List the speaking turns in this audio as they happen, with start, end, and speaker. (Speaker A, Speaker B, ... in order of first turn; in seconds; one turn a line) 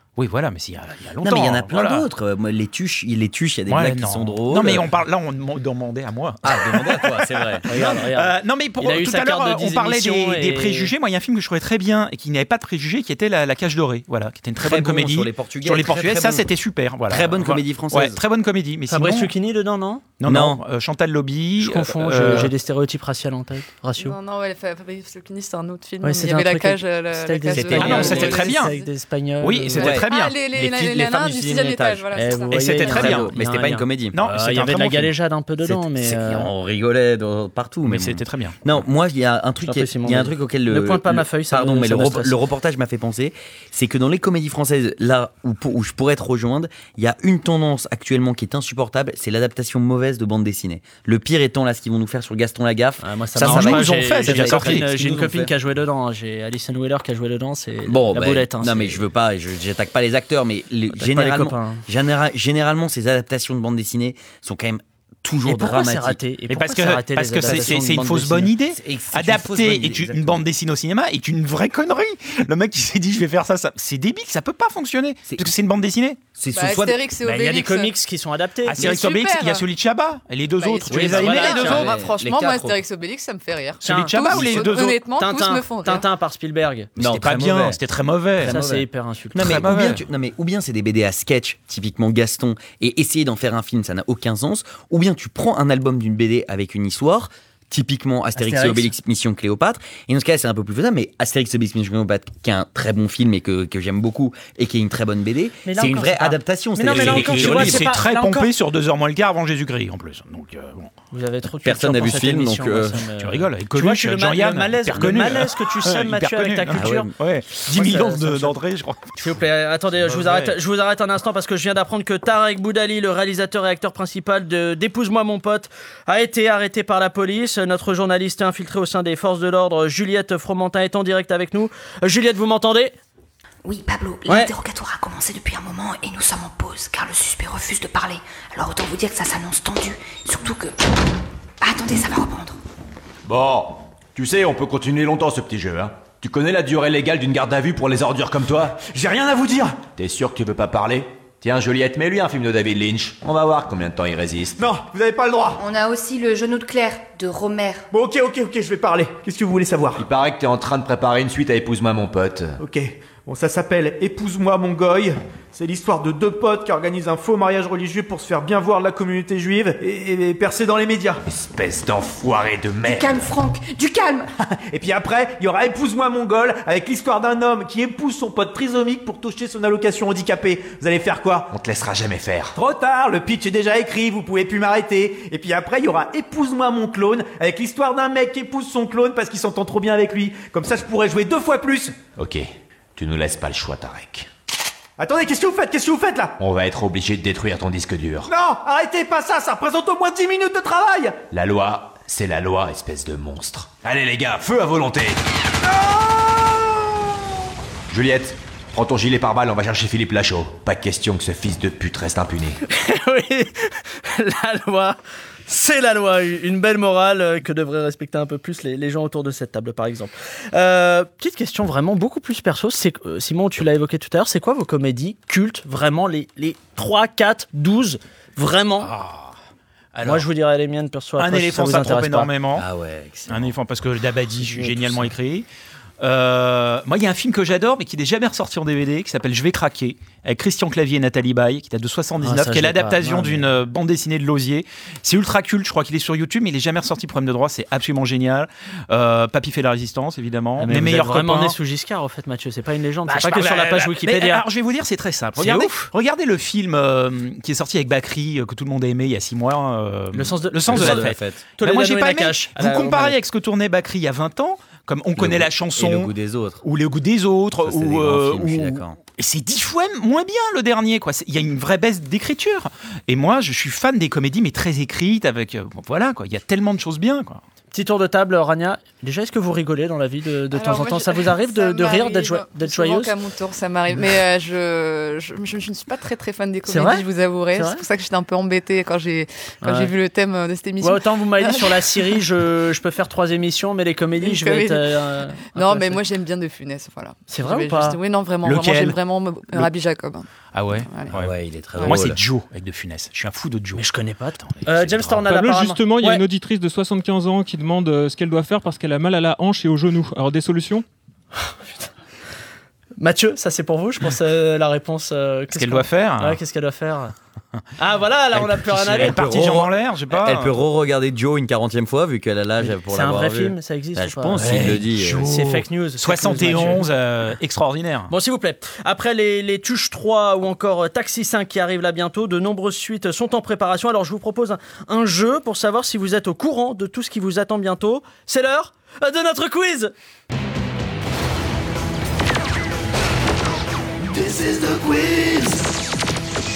Speaker A: 0.2-2.1
Speaker B: 1.2-4.8
Speaker A: 3.7-19.3
Speaker B: 6.4-8.1
Speaker C: 7.7-10.9
Speaker B: 14.6-16.5
Speaker B: 17.1-18.2
Speaker C: 18.9-20.1
Speaker A: 20.2-22.5
Speaker B: 20.2-20.6
Speaker C: 21.6-24.2
Speaker B: 22.2-22.5
Speaker D: 24.0-28.9
Speaker C: 26.0-29.9
Speaker B: 27.5-28.4
Speaker A: 27.8-28.7
Speaker A: 29.4-30.4
Speaker B: 29.8-34.2
Speaker D: 29.8-32.5
Speaker C: 32.1-36.5
Speaker A: 32.5-33.3
Speaker A: 34.1-35.1
Speaker B: 35.6-55.5
Speaker A: 37.9-38.6
Speaker C: 39.6-42.4
Speaker C: 53.0-59.0
Speaker A: 53.4-54.9
Speaker B: 57.9-66.2
Speaker C: 60.9-61.8
Speaker C: 65.5-68.5
Speaker A: 66.5-76.2
Speaker B: 67.4-67.8
Speaker B: 68.7-70.4
Speaker B: 76.4-77.0
Speaker D: 76.5-77.9
Speaker C: 77.2-78.8
Speaker A: 78.7-81.9
Speaker D: 78.8-79.6
Speaker D: 80.6-86.0
Speaker C: 80.9-81.9
Speaker B: 81.0-82.8
Speaker A: 83.8-85.0
Speaker C: 83.8-86.9
Speaker B: 87.0-87.8
Speaker A: 87.0-88.6
Speaker B: 88.4-108.0
Speaker C: 88.4-89.9
Speaker A: 89.4-90.0
Speaker C: 98.4-98.9
Speaker C: 105.7-108.5
Speaker A: 106.9-110.9
Speaker C: 111.1-117.1
Speaker B: 111.6-113.0
Speaker A: 113.2-119.2
Speaker B: 116.7-117.1
Speaker C: 117.7-118.6
Speaker C: 119.2-133.0
Speaker A: 120.0-120.6
Speaker E: 133.7-140.8
Speaker C: 134.3-134.5
Speaker E: 141.6-142.6
Speaker F: 143.3-148.8
Speaker G: 148.8-149.8
Speaker F: 150.0-154.6
Speaker G: 154.6-155.6
Speaker E: 155.6-157.9
Speaker G: 157.9-160.1
Speaker F: 160.0-162.6
Speaker G: 162.6-171.2
Speaker F: 171.3-173.3
Speaker E: 172.9-174.3
Speaker G: 174.6-181.5
Speaker F: 181.5-182.6
Speaker G: 182.6-192.0
Speaker F: 192.2-192.5
Speaker F: 193.0-194.3
Speaker G: 195.0-196.3
Speaker F: 196.4-198.3
Speaker G: 198.3-201.2
Speaker F: 201.3-205.2
Speaker G: 205.7-206.3
Speaker F: 207.9-212.6
Speaker C: 212.7-228.9
Speaker A: 228.8-229.3
Speaker A: 229.9-230.3
Speaker C: 230.0-232.3
Speaker A: 231.2-232.7
Speaker B: 232.6-233.6
Speaker A: 233.3-235.5
Speaker C: 234.5-235.1
Speaker A: 236.0-251.6
Speaker C: 242.2-243.5
Speaker C: 250.6-254.4
Speaker A: 253.1-277.4
Speaker C: 255.4-255.7
Speaker C: 260.1-263.2
Speaker B: 260.7-261.4
Speaker B: 265.2-266.6
Speaker B: 267.6-269.0
Speaker C: 277.7-283.1
Speaker D: 280.5-291.7
Speaker C: 286.7-287.8
Speaker C: 289.6-289.9
Speaker C: 290.8-296.0
Speaker D: 294.2-300.3
Speaker C: 297.3-298.0
Speaker A: 298.4-299.0
Speaker A: 300.5-303.9
Speaker D: 300.9-301.1
Speaker B: 301.1-302.2
Speaker C: 303.8-306.2
Speaker A: 304.5-305.2
Speaker H: 305.3-310.9
Speaker C: 311.4-311.9
Speaker C: 313.0-317.1
Speaker A: 315.5-316.4
Speaker C: 317.8-319.3
Speaker B: 318.4-325.3
Speaker A: 318.7-320.6
Speaker C: 322.6-326.9
Speaker A: 324.4-328.1
Speaker C: 328.1-339.9